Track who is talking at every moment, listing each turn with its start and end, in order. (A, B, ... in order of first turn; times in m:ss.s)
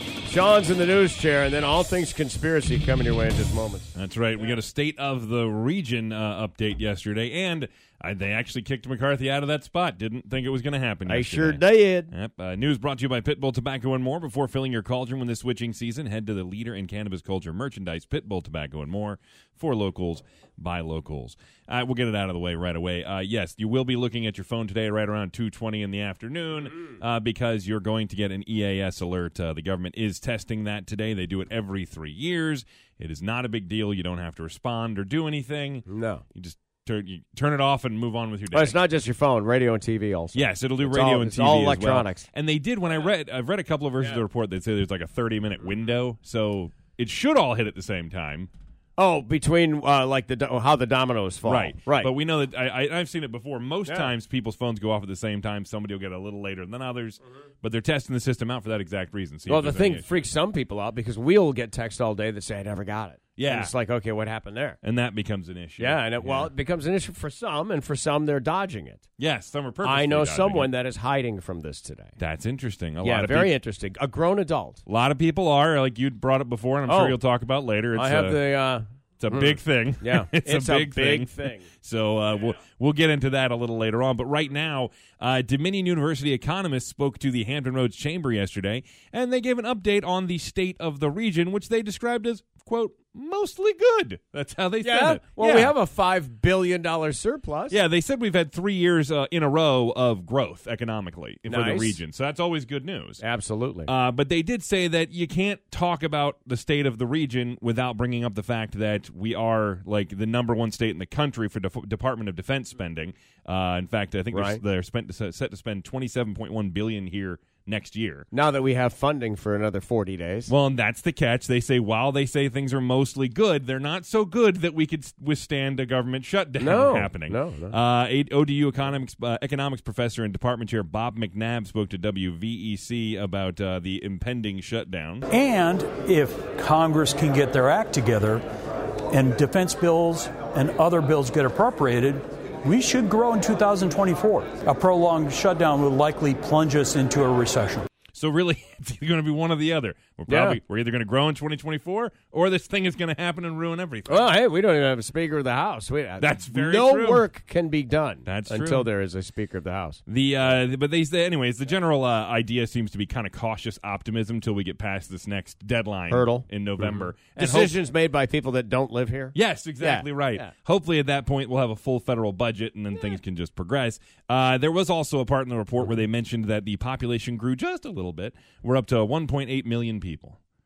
0:00.2-0:03.9 A
0:03.9-0:38.8 B
0:11.0-0:12.1 A
0:35.9-0:36.2 A
0:38.5-0:42.2 A
0:40.3-0:48.5 B
0:49.0-0:52.1 A
0:51.4-1:00.1 B
0:53.9-0:54.1 A
0:59.5-1:04.8 A
1:03.4-1:03.7 B
1:04.8-1:06.5 B
1:05.8-1:09.0 A
1:09.2-1:10.7 B
1:09.8-1:12.1 A
1:12.2-1:13.5 B
1:13.0-1:14.8 A
1:14.8-1:18.4 B
1:16.9-1:17.2 A
1:17.9-1:21.7 A
1:19.2-1:35.7 B
1:34.8-1:37.8 A
1:37.7-1:43.2 B
1:41.5-1:42.0 A
1:43.2-1:43.9 A
1:43.8-1:58.3 B
1:54.3-1:54.6 A
1:58.3-2:00.5 A
2:00.5-2:15.2 B
2:06.6-2:07.8 A
2:15.3-2:18.4 C
2:19.1-2:27.9 C
2:28.1-2:34.3 B
2:30.3-2:30.6 A
2:34.1-2:40.0 A
2:36.2-2:37.3 B
2:38.2-2:38.9 B
2:40.1-2:47.7 B
2:46.1-2:50.5 A
2:49.3-3:00.4 B